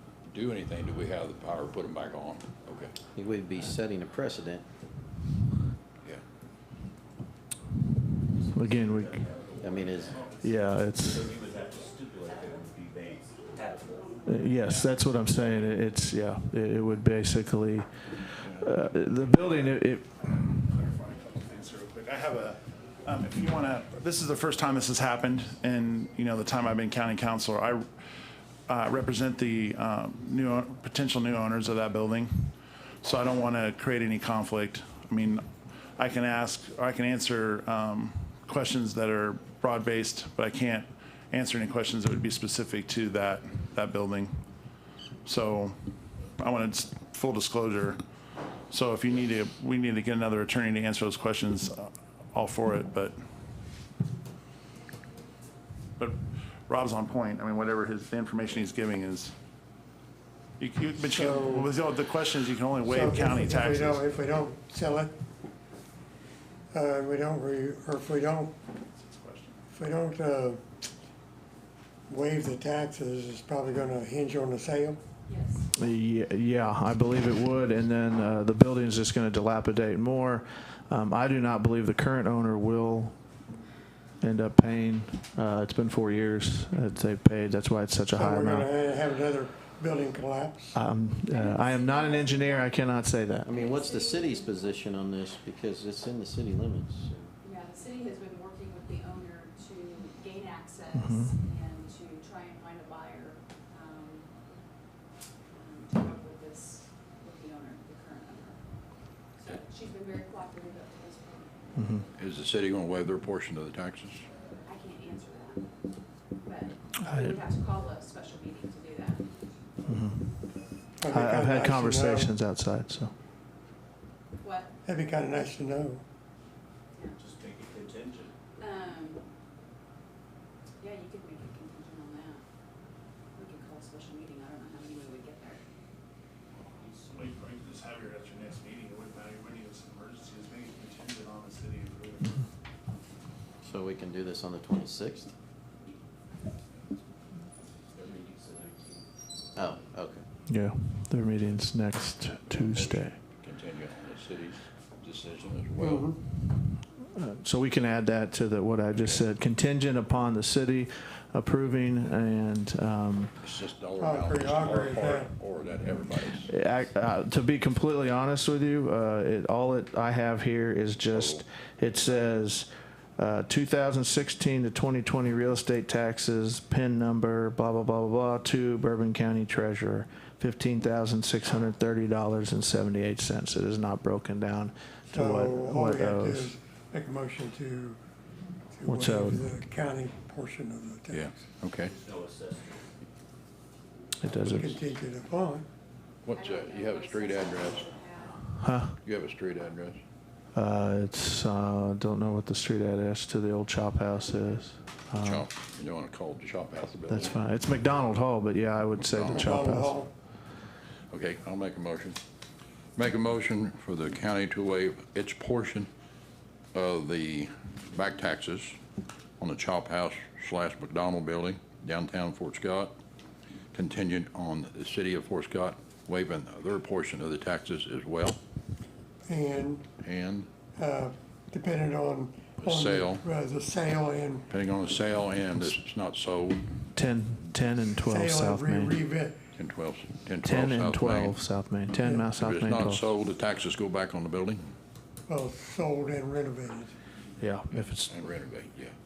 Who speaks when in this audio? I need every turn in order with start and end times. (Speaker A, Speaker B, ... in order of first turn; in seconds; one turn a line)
Speaker A: 0.3-2.9
Speaker B: 3.1-4.7
Speaker C: 8.4-9.3
Speaker D: 8.5-10.2
Speaker B: 9.6-10.3
Speaker E: 9.9-11.9
Speaker C: 10.4-11.4
Speaker D: 11.0-14.4
Speaker C: 14.2-20.1
Speaker A: 18.4-18.7
Speaker E: 19.2-19.7
Speaker E: 20.6-27.9
Speaker E: 28.7-35.4
Speaker E: 36.0-44.4
Speaker E: 45.2-45.8
Speaker E: 46.4-48.0
Speaker E: 48.7-53.1
Speaker E: 56.0-59.3
Speaker E: 60.6-64.4
Speaker F: 61.0-61.7
Speaker F: 62.8-65.1
Speaker F: 66.7-68.5
Speaker E: 68.9-69.6
Speaker F: 69.7-70.6
Speaker F: 72.1-75.0
Speaker G: 75.3-75.7
Speaker C: 75.7-83.2
Speaker C: 84.2-88.7
Speaker F: 88.1-90.8
Speaker C: 90.7-93.5
Speaker G: 91.3-92.9
Speaker B: 93.4-97.3
Speaker G: 93.5-94.8
Speaker G: 97.4-104.3
Speaker C: 100.9-101.3
Speaker G: 105.5-108.6
Speaker G: 109.4-111.5
Speaker C: 111.7-112.0
Speaker A: 112.2-114.2
Speaker G: 114.7-115.7
Speaker G: 116.4-119.3
Speaker C: 117.1-117.3
Speaker C: 119.8-120.3
Speaker F: 121.0-122.3
Speaker C: 121.1-123.1
Speaker G: 124.4-124.7
Speaker F: 124.8-126.0
Speaker D: 127.2-128.3
Speaker G: 128.6-129.2
Speaker G: 130.8-132.4
Speaker G: 133.3-135.6
Speaker E: 136.8-142.4
Speaker B: 143.6-145.3
Speaker D: 147.9-149.0
Speaker B: 149.5-150.2
Speaker C: 150.5-153.2
Speaker A: 152.5-156.1
Speaker F: 155.8-156.2
Speaker C: 157.1-163.3
Speaker A: 163.4-166.5
Speaker F: 164.0-165.3
Speaker C: 166.3-186.5
Speaker A: 171.1-171.4
Speaker F: 185.1-188.0
Speaker F: 188.7-191.3
Speaker C: 188.8-189.4
Speaker A: 191.1-192.0
Speaker D: 191.9-192.8
Speaker C: 194.2-194.7
Speaker F: 194.4-195.7
Speaker A: 196.2-197.9
Speaker G: 196.3-198.4
Speaker C: 198.6-199.0
Speaker A: 199.0-200.0
Speaker C: 200.5-205.5
Speaker A: 205.2-207.4
Speaker C: 207.1-210.0
Speaker A: 209.0-209.6
Speaker F: 209.3-210.1
Speaker A: 211.1-212.2
Speaker A: 212.9-215.9
Speaker A: 216.7-218.8
Speaker A: 219.4-222.9
Speaker A: 223.7-228.4
Speaker F: 229.2-229.8
Speaker A: 230.0-230.5
Speaker F: 230.8-234.4
Speaker A: 232.6-233.2
Speaker A: 234.5-236.7
Speaker C: 236.9-239.0
Speaker F: 238.0-239.4
Speaker A: 239.5-241.4
Speaker C: 240.4-243.1
Speaker A: 242.3-244.7
Speaker F: 245.3-246.9
Speaker C: 247.4-248.2
Speaker A: 247.7-248.9